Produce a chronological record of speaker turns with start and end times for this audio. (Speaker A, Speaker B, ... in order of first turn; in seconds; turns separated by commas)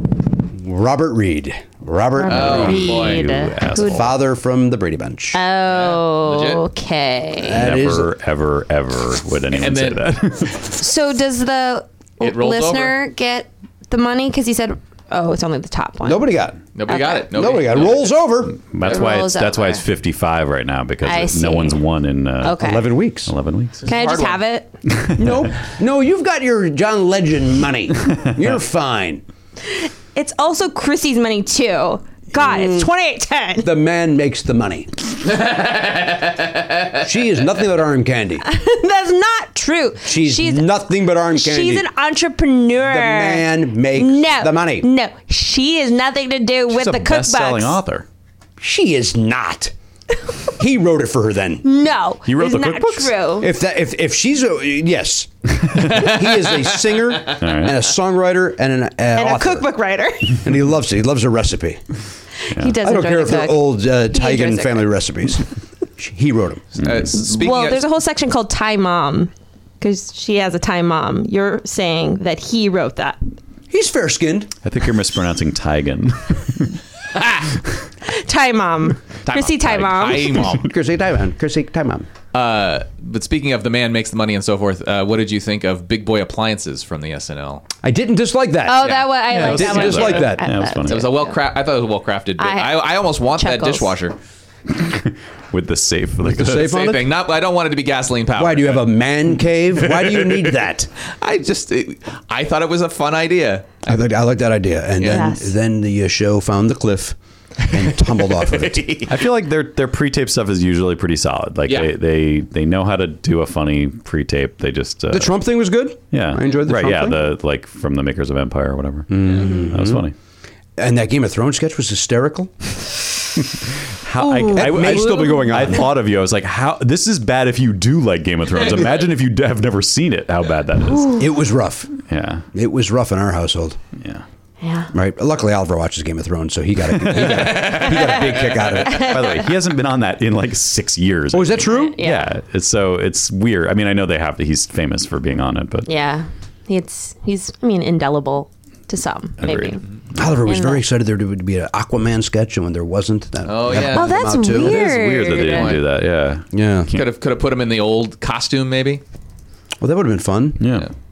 Speaker A: 0.5-2.8, Speaker B: 2.2-4.1, Speaker C: 2.3-3.4, Speaker D: 2.4-4.1, Speaker A: 3.8-5.4, Speaker B: 5.3-7.6, Speaker C: 5.7-6.7, Speaker A: 7.4-8.1, Speaker D: 7.5-10.6, Speaker C: 9.5-10.2, Speaker B: 10.6-16.3, Speaker C: 12.2-13.0, Speaker A: 16.0-16.6, Speaker C: 16.8-19.1, Speaker B: 16.9-17.3, Speaker A: 17.3-18.6, Speaker D: 18.7-22.7, Speaker B: 18.8-19.8, Speaker B: 21.0-21.8, Speaker B: 22.4-22.9, Speaker A: 22.6-23.3, Speaker D: 23.3-23.9, Speaker C: 23.8-24.4, Speaker B: 23.9-24.7, Speaker D: 24.9-25.5, Speaker A: 25.2-29.2, Speaker B: 29.6-33.7, Speaker A: 32.3-32.9, Speaker A: 33.6-34.9, Speaker C: 35.3-37.0, Speaker A: 37.0-38.5, Speaker B: 38.4-47.8, Speaker A: 40.0-41.9, Speaker A: 42.8-44.9, Speaker D: 46.7-48.0, Speaker A: 48.6-49.7, Speaker A: 50.5-51.7, Speaker B: 51.6-53.5, Speaker D: 52.2-53.1, Speaker A: 53.4-59.7, Speaker C: 56.0-57.1, Speaker D: 57.4-57.8, Speaker B: 59.1-60.4, Speaker A: 60.3-61.8, Speaker B: 62.4-65.5, Speaker A: 62.8-66.6, Speaker D: 66.8-67.3, Speaker C: 66.8-67.9, Speaker B: 67.3-73.2, Speaker A: 73.7-74.5, Speaker D: 74.6-76.8, Speaker C: 77.2-77.4, Speaker B: 78.0-80.5, Speaker C: 79.3-80.7, Speaker A: 80.5-82.1, Speaker C: 82.3-87.7, Speaker A: 87.8-90.5, Speaker B: 88.6-91.4, Speaker C: 88.8-89.1, Speaker D: 89.3-91.1, Speaker C: 90.8-94.2, Speaker B: 92.4-94.0, Speaker D: 94.7-96.7, Speaker A: 96.3-97.0, Speaker C: 96.4-99.0, Speaker A: 98.4-100.9, Speaker C: 99.9-100.5, Speaker C: 101.0-103.8, Speaker A: 103.8-108.9, Speaker B: 105.0-105.5, Speaker C: 108.0-109.2, Speaker D: 109.1-115.4, Speaker A: 115.1-117.3, Speaker D: 116.1-120.2, Speaker A: 119.1-120.1, Speaker A: 120.8-122.7, Speaker D: 124.0-131.3, Speaker B: 124.2-125.5, Speaker A: 124.5-125.9, Speaker A: 131.2-131.9, Speaker D: 132.0-132.5, Speaker A: 132.5-133.8, Speaker D: 134.0-134.2, Speaker B: 134.6-134.9, Speaker A: 134.9-139.1, Speaker D: 136.9-137.7, Speaker C: 137.3-138.6, Speaker D: 138.8-145.9, Speaker B: 139.0-139.4, Speaker A: 141.3-142.0, Speaker B: 141.7-142.3, Speaker B: 145.9-150.8, Speaker D: 149.4-149.8, Speaker A: 150.2-154.8, Speaker C: 153.5-154.3, Speaker B: 153.9-155.8, Speaker D: 154.5-157.1, Speaker C: 155.3-155.8, Speaker A: 156.5-156.9, Speaker C: 156.9-159.0, Speaker A: 159.8-160.6, Speaker D: 160.6-160.9